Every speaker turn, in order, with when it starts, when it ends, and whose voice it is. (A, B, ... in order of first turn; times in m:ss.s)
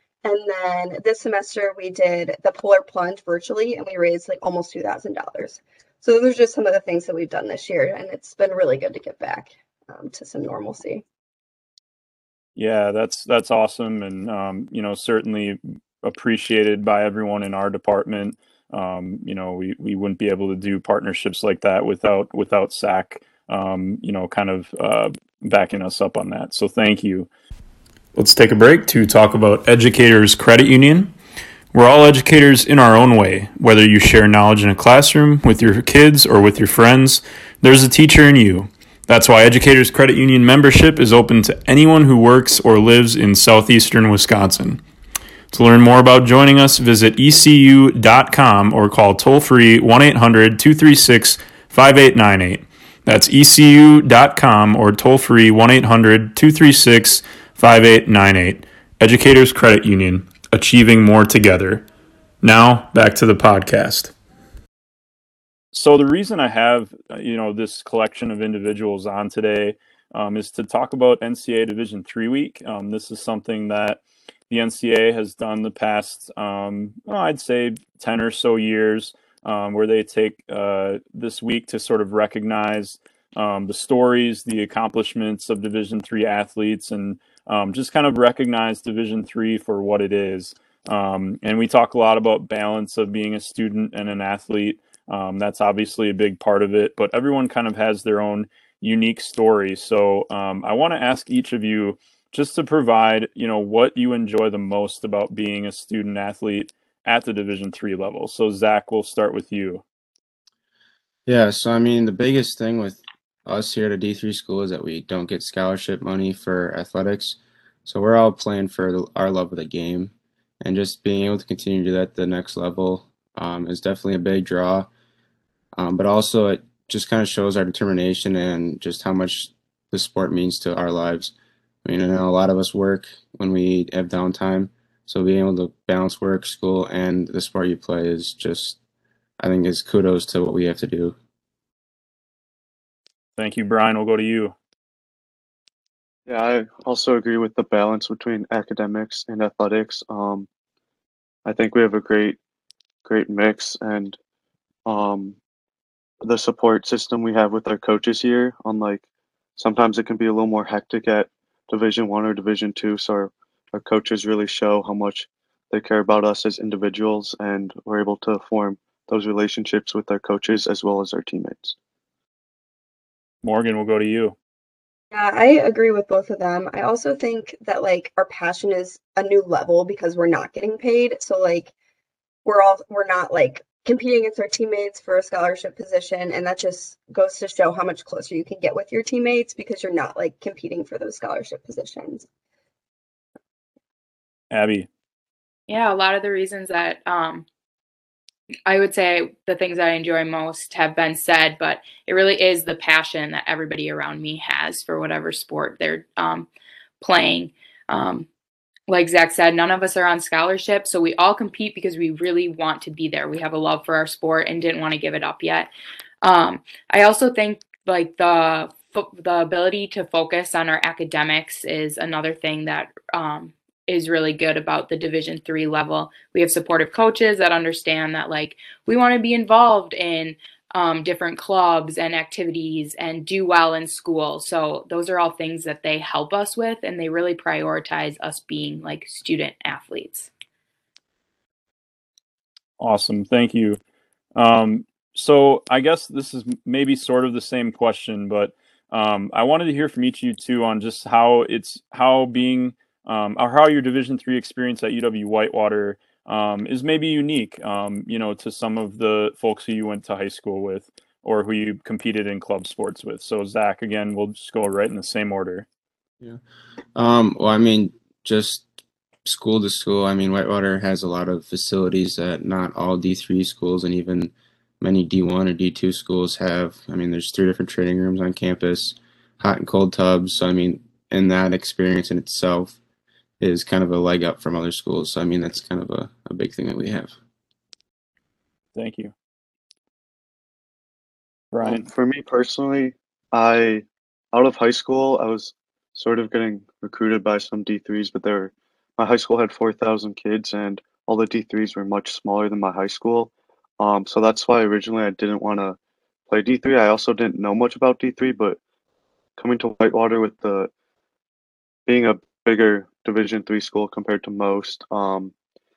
0:00.2-0:11.0 A
0:12.6-0:27.3 B
0:28.1-0:31.1 B
0:31.7-0:44.8 B
0:45.5-1:01.8 B
1:02.4-1:04.1 B
1:05.7-1:49.8 B
1:51.3-2:04.9 C
2:05.8-2:11.3 C
2:11.8-2:18.8 C
2:19.4-2:21.1 C
2:23.4-2:24.5 B
2:26.2-2:30.5 D
2:31.4-2:32.4 D
2:33.0-2:34.2 D
2:34.8-2:35.4 D
2:36.2-2:39.0 D
2:39.6-2:51.8 D
2:53.4-2:54.3 B
2:55.1-3:01.7 A
3:02.4-3:12.2 A
3:14.5-3:14.9 B
3:15.7-3:17.4 E
3:18.6-3:26.5 E
3:27.0-3:28.3 E
3:28.9-3:35.7 E
3:36.2-4:00.3 E
4:02.8-4:03.8 B
4:04.4-4:25.6 B
4:27.0-4:28.7 C
4:29.2-4:42.8 C
4:43.4-4:47.1 C
4:48.7-4:49.1 B
4:51.5-4:51.8 B
4:51.6-5:08.6 D
5:09.4-5:10.7 D
5:11.8-5:15.3 D